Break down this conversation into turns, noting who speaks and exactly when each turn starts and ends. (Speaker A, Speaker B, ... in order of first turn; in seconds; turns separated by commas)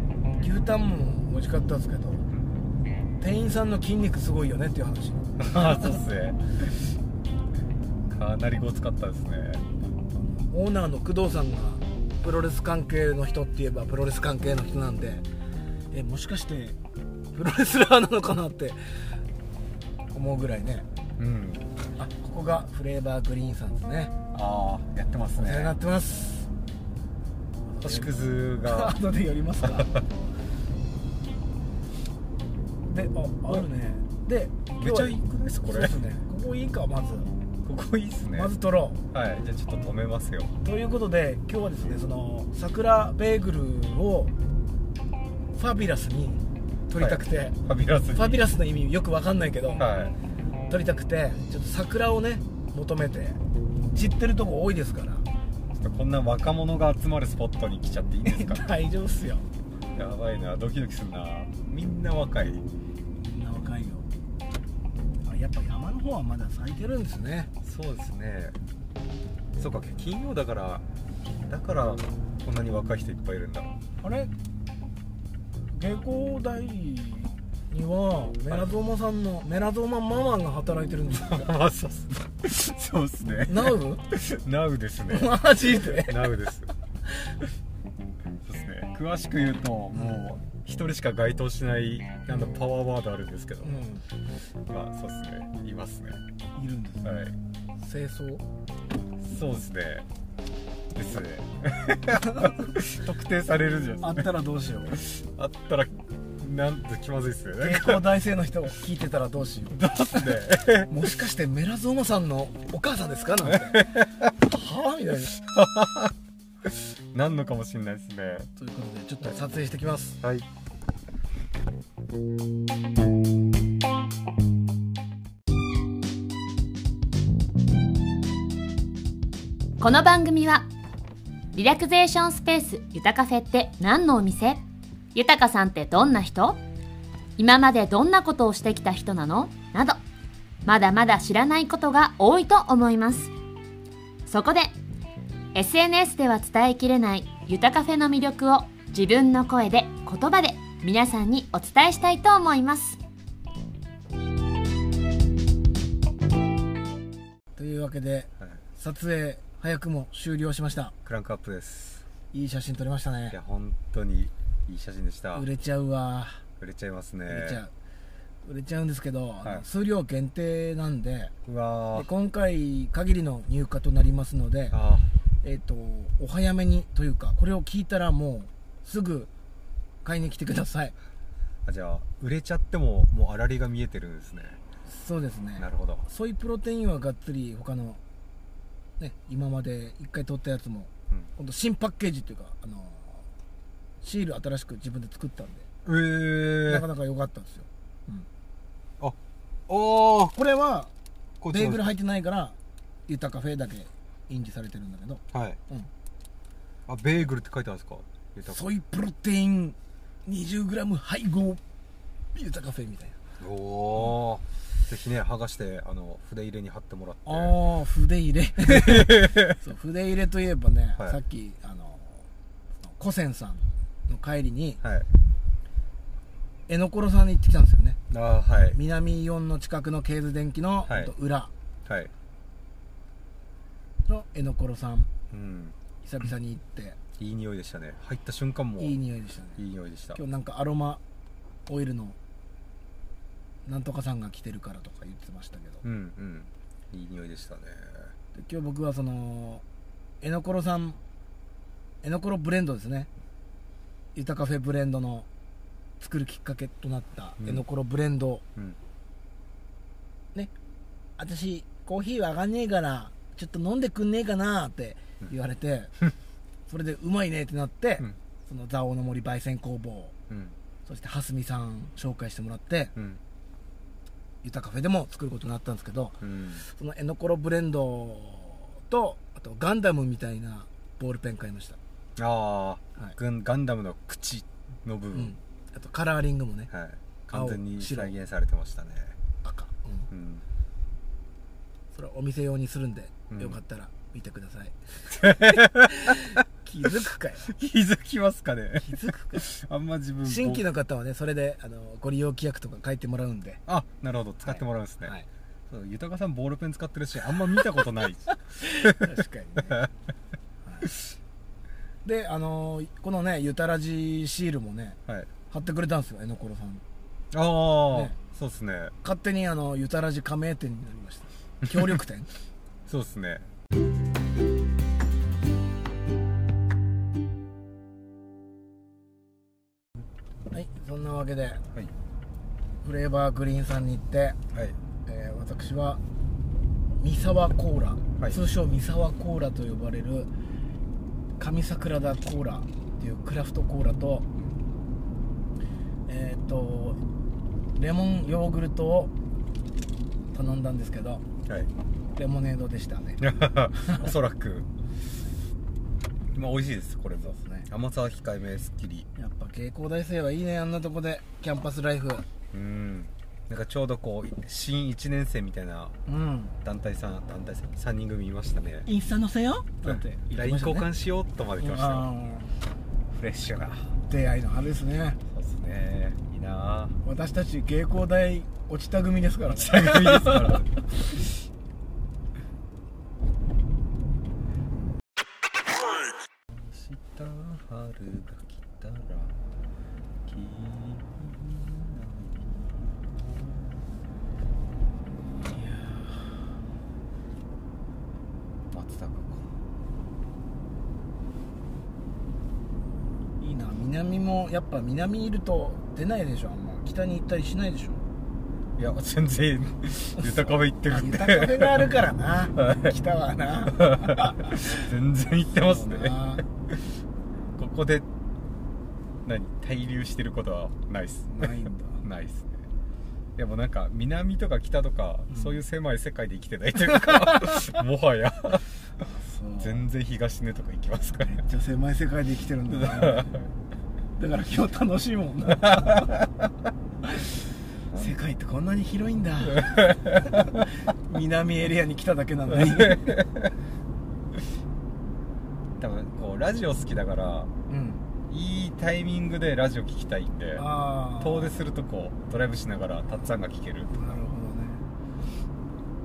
Speaker A: 0.4-2.2, Speaker B: 2.3-2.6, Speaker A: 3.2-5.9, Speaker B: 5.4-6.8, Speaker B: 8.1-9.6, Speaker A: 10.1-15.2, Speaker A: 15.9-16.8, Speaker A: 17.3-18.8, Speaker A: 20.1-20.9, Speaker B: 21.2-21.7, Speaker A: 22.0-24.1, Speaker B: 24.3-25.7, Speaker A: 25.4-26.5, Speaker A: 27.7-30.0, Speaker B: 27.8-28.9, Speaker B: 29.6-30.0, Speaker A: 32.9-37.3, Speaker B: 34.8-36.0, Speaker B: 37.6-38.5, Speaker A: 38.3-39.0, Speaker B: 39.1-40.5, Speaker A: 40.6-44.3, Speaker A: 45.5-47.6, Speaker B: 47.0-48.4, Speaker A: 48.1-49.9, Speaker B: 49.8-50.1, Speaker A: 50.7-53.4, Speaker A: 53.9-55.2, Speaker B: 55.8-58.7, Speaker A: 58.2-59.5, Speaker B: 59.9-62.6, Speaker A: 63.2-64.1, Speaker A: 65.2-67.5, Speaker B: 67.6-68.6, Speaker B: 69.6-70.8, Speaker B: 71.5-73.8, Speaker A: 74.0-74.3, Speaker A: 75.7-81.5, Speaker B: 81.2-86.7, Speaker A: 83.5-84.0, Speaker A: 85.1-86.4, Speaker B: 88.4-93.8, Speaker A: 89.9-90.2, Speaker A: 92.3-92.5, Speaker A: 93.6-94.0, Speaker B: 94.7-96.2, Speaker A: 96.5-98.4, Speaker B: 97.0-97.3, Speaker B: 99.2-100.0, Speaker B: 100.9-104.3, Speaker A: 104.0-105.0, Speaker B: 105.0-108.0, Speaker A: 107.6-110.2, Speaker B: 109.7-111.0, Speaker A: 110.9-115.4, Speaker B: 113.7-114.0, Speaker B: 115.3-116.1, Speaker B: 116.7-118.5, Speaker A: 118.5-120.2, Speaker B: 120.2-120.5, Speaker C: 129.8-130.7, Speaker C: 131.5-134.6, Speaker C: 135.1-136.6, Speaker C: 137.4-140.0, Speaker C: 140.6-143.3, Speaker C: 144.2-144.7, Speaker C: 145.5-153.0, Speaker A: 157.6-160.9, Speaker B: 161.0-162.0, Speaker A: 162.3-163.3, Speaker B: 163.3-165.5, Speaker A: 165.3-166.4, Speaker B: 166.6-167.6, Speaker A: 167.3-167.7, Speaker A: 168.4-171.3, Speaker B: 171.4-172.1, Speaker A: 171.9-174.8, Speaker B: 174.7-175.1, Speaker A: 175.4-179.3, Speaker A: 180.0-180.9, Speaker B: 181.7-184.6, Speaker A: 184.8-188.0, Speaker B: 185.6-186.1, Speaker A: 189.0-193.2, Speaker A: 194.0-195.7, Speaker B: 195.8-196.8, Speaker A: 196.6-198.3, Speaker B: 199.7-200.3, Speaker A: 200.3-200.9, Speaker B: 201.4-201.9, Speaker A: 201.5-202.6, Speaker A: 203.1-205.9, Speaker B: 205.3-205.6, Speaker B: 206.9-208.6, Speaker A: 208.4-211.6, Speaker A: 212.3-213.2, Speaker B: 213.4-217.5, Speaker A: 217.2-222.3, Speaker B: 218.6-219.6, Speaker A: 222.8-224.8, Speaker B: 224.8-225.1, Speaker A: 226.7-228.0, Speaker B: 228.1-228.8, Speaker A: 228.7-231.5, Speaker B: 230.8-231.1, Speaker B: 231.8-232.1, Speaker A: 234.1-235.1, Speaker B: 235.3-235.7, Speaker A: 236.0-237.0, Speaker B: 237.2-239.0, Speaker A: 238.8-239.6, Speaker B: 239.6-240.2, Speaker A: 240.1-241.0, Speaker A: 241.7-242.2, Speaker A: 243.7-245.8, Speaker B: 245.8-248.1, Speaker A: 248.3-249.6, Speaker A: 250.2-251.0, Speaker A: 252.0-253.1, Speaker A: 254.1-255.3, Speaker A: 256.0-258.4, Speaker A: 261.2-265.9, Speaker A: 266.7-270.1, Speaker B: 270.3-270.5, Speaker A: 270.9-272.9, Speaker B: 272.9-273.2, Speaker A: 274.4-281.8, Speaker B: 276.2-276.6, Speaker B: 282.2-285.3, Speaker A: 285.1-286.7, Speaker B: 286.7-289.1, Speaker A: 287.3-288.1, Speaker A: 289.4-290.1, Speaker B: 290.1-290.4, Speaker A: 291.9-297.5, Speaker B: 293.3-293.6, Speaker B: 295.2-296.2, Speaker B: 297.4-300.6, Speaker A: 298.8-299.5, Speaker A: 300.2-303.6, Speaker B: 303.7-305.1, Speaker A: 304.4-305.3, Speaker B: 305.7-309.1, Speaker A: 308.3-309.9, Speaker A: 310.6-310.9, Speaker A: 312.0-315.0, Speaker A: 315.5-316.8, Speaker B: 317.3-318.9, Speaker A: 317.9-318.1, Speaker A: 319.0-322.3, Speaker B: 321.6-322.0, Speaker B: 322.9-323.5, Speaker A: 330.5-331.6, Speaker A: 332.8-334.4, Speaker A: 335.1-336.0, Speaker A: 337.0-340.3, Speaker A: 341.4-344.3, Speaker A: 346.1-347.0, Speaker A: 347.7-349.1, Speaker A: 350.3-351.2, Speaker A: 352.1-353.2, Speaker B: 353.2-354.7, Speaker A: 353.8-354.1, Speaker B: 356.3-359.1, Speaker A: 357.3-357.7, Speaker A: 359.1-362.2, Speaker B: 362.5-365.9, Speaker A: 366.1-366.5, Speaker B: 366.6-368.9, Speaker A: 368.9-370.9, Speaker B: 369.8-372.1, Speaker A: 371.6-372.5, Speaker B: 373.1-373.9, Speaker A: 374.1-375.2, Speaker B: 375.3-377.0, Speaker A: 377.0-380.6, Speaker B: 379.5-381.2, Speaker B: 386.5-389.3, Speaker B: 390.3-393.8, Speaker A: 395.4-396.4, Speaker B: 398.7-399.5, Speaker A: 403.4-408.1, Speaker B: 408.8-411.9, Speaker A: 410.2-414.9, Speaker B: 412.6-412.9, Speaker B: 413.8-416.4, Speaker A: 415.5-416.4, Speaker B: 417.6-418.1, Speaker B: 419.2-422.6, Speaker A: 421.3-422.0, Speaker B: 423.4-428.6, Speaker A: 425.3-425.6, Speaker A: 426.9-427.6, Speaker A: 429.0-429.9, Speaker B: 429.6-431.4, Speaker A: 431.2-433.3, Speaker B: 432.7-433.5, Speaker A: 434.2-436.2, Speaker B: 435.6-436.1, Speaker A: 437.0-437.3, Speaker A: 437.9-443.2, Speaker B: 439.6-440.3, Speaker B: 442.8-443.2, Speaker B: 445.8-447.5, Speaker A: 447.7-448.0, Speaker B: 448.3-450.6, Speaker A: 450.6-451.5, Speaker B: 451.2-454.2, Speaker A: 453.9-454.9